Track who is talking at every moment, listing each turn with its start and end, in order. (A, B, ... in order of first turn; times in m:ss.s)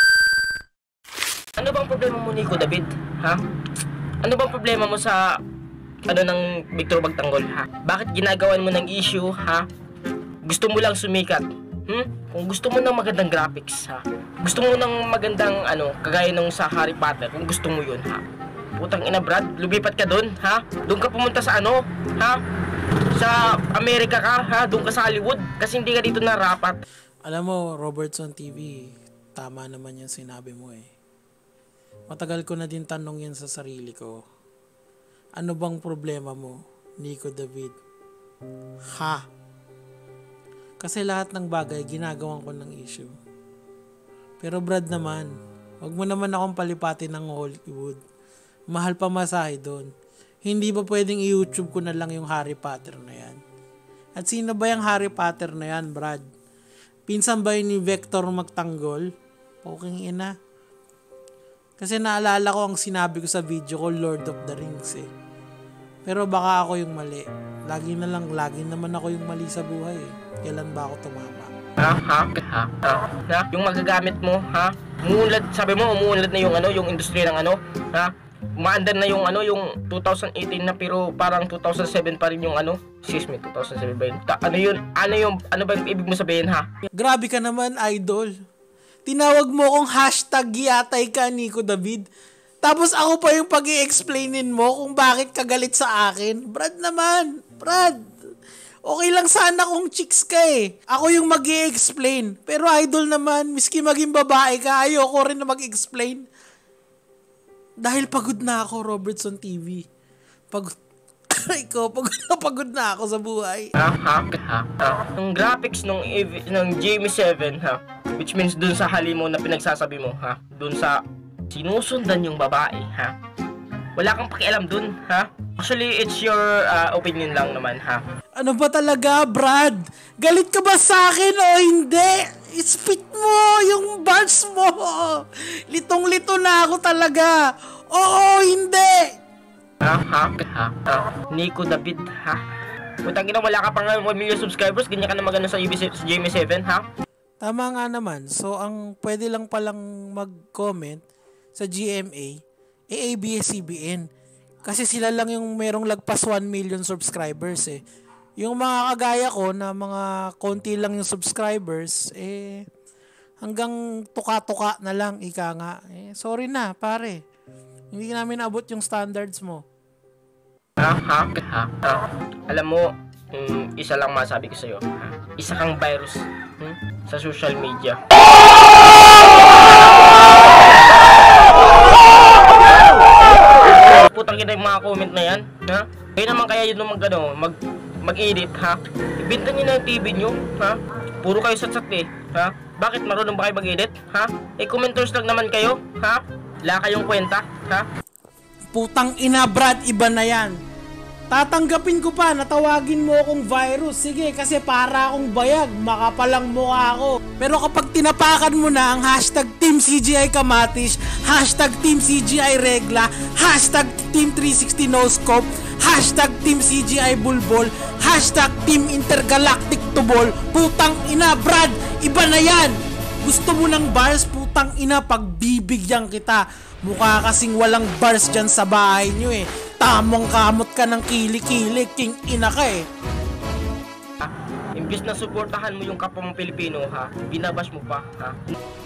0:01.6-0:03.4 A
0:04.2-0:05.4 A
0:06.1-0:09.7 A
0:10.4-0:18.3 A
0:18.8-0:22.4 A
0:23.1-0:26.8 A
0:27.3-0:30.9 B
0:32.1-0:34.2 B
0:35.4-0:37.8 B
0:38.9-0:39.2 B
0:40.8-0:43.2 B
0:44.4-0:45.3 B
0:45.8-0:48.0 B
0:48.7-0:49.9 B
0:50.4-0:53.4 B
0:54.2-0:56.2 B
0:57.1-0:59.0 B
0:59.6-1:00.3 B
1:01.8-1:05.1 B
1:06.0-1:11.5 B
1:11.8-1:26.7 A
1:27.0-1:28.3 B
1:29.1-1:32.1 B
1:32.6-1:38.1 B
1:38.9-1:46.2 B
1:47.8-1:49.8 B
1:51.3-1:53.7 B
1:53.8-2:03.1 A
2:04.0-2:08.0 A
2:08.4-2:17.4 B
2:17.9-2:19.1 B
2:19.8-2:22.4 A
2:23.0-2:26.8 A
2:27.4-2:31.0 B
2:31.6-2:32.4 B
2:32.9-2:34.1 B
2:34.6-2:37.8 B
2:38.4-2:42.6 B
2:43.4-2:47.2 B
2:47.9-2:49.6 B
2:50.8-2:58.0 A
3:01.1-3:01.5 A
3:02.2-3:17.9 A
3:18.7-3:20.6 B
3:21.3-3:52.9 B
3:54.2-3:58.5 A